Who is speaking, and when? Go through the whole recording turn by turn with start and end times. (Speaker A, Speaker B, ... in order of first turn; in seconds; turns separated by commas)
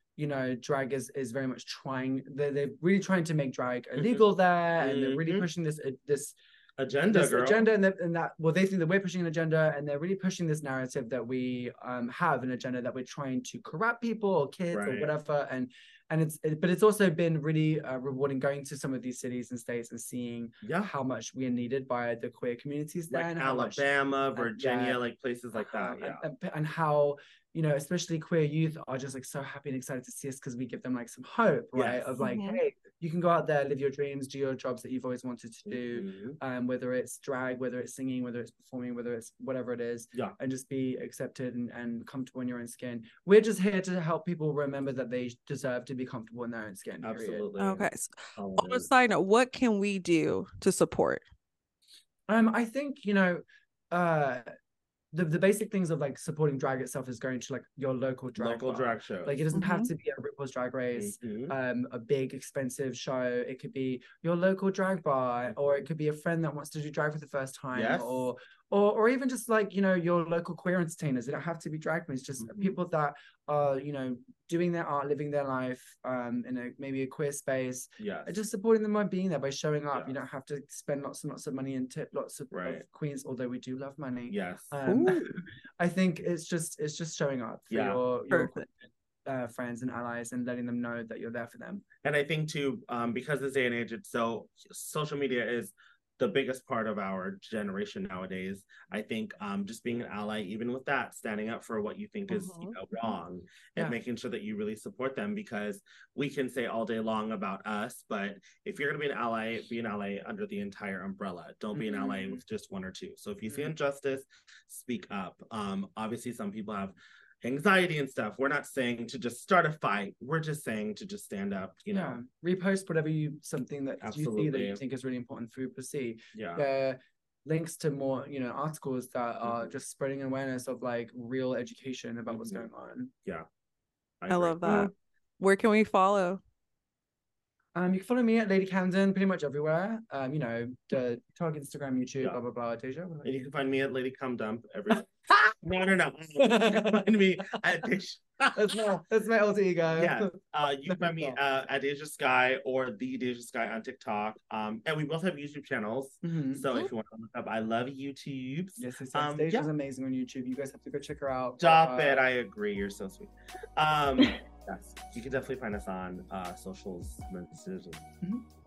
Speaker A: 0.2-6.4, Speaker B: 4.0-4.2, Speaker B: 4.8-5.5, Speaker B: 6.8-7.6, Speaker A: 7.1-25.0, Speaker B: 14.7-15.1, Speaker B: 20.6-20.9, Speaker B: 23.1-26.2, Speaker A: 25.6-47.5, Speaker B: 31.7-32.1, Speaker C: 32.2-32.6, Speaker B: 35.7-36.4, Speaker B: 47.0-48.9, Speaker C: 47.6-51.2, Speaker A: 52.3-54.5, Speaker A: 55.1-88.7, Speaker B: 58.4-59.4, Speaker C: 59.5-59.9, Speaker B: 61.0-61.5, Speaker B: 67.7-68.3, Speaker B: 72.4-72.7, Speaker B: 78.0-78.4, Speaker B: 82.5-82.8, Speaker B: 84.3-84.7, Speaker C: 84.9-85.3, Speaker B: 87.7-88.0, Speaker C: 88.3-88.7, Speaker A: 89.3-91.8, Speaker B: 92.0-122.2, Speaker C: 102.3-102.8, Speaker A: 111.7-112.4, Speaker A: 121.9-133.1, Speaker B: 124.0-124.8, Speaker B: 126.3-126.7, Speaker B: 129.4-129.7, Speaker B: 132.3-132.7, Speaker B: 134.2-134.9, Speaker C: 134.3-136.4, Speaker A: 134.7-134.9, Speaker A: 137.8-143.4, Speaker B: 143.2-148.8, Speaker A: 146.4-147.1, Speaker A: 148.6-151.4, Speaker B: 150.0-159.7, Speaker A: 156.2-156.7, Speaker A: 158.8-162.3, Speaker B: 161.6-168.0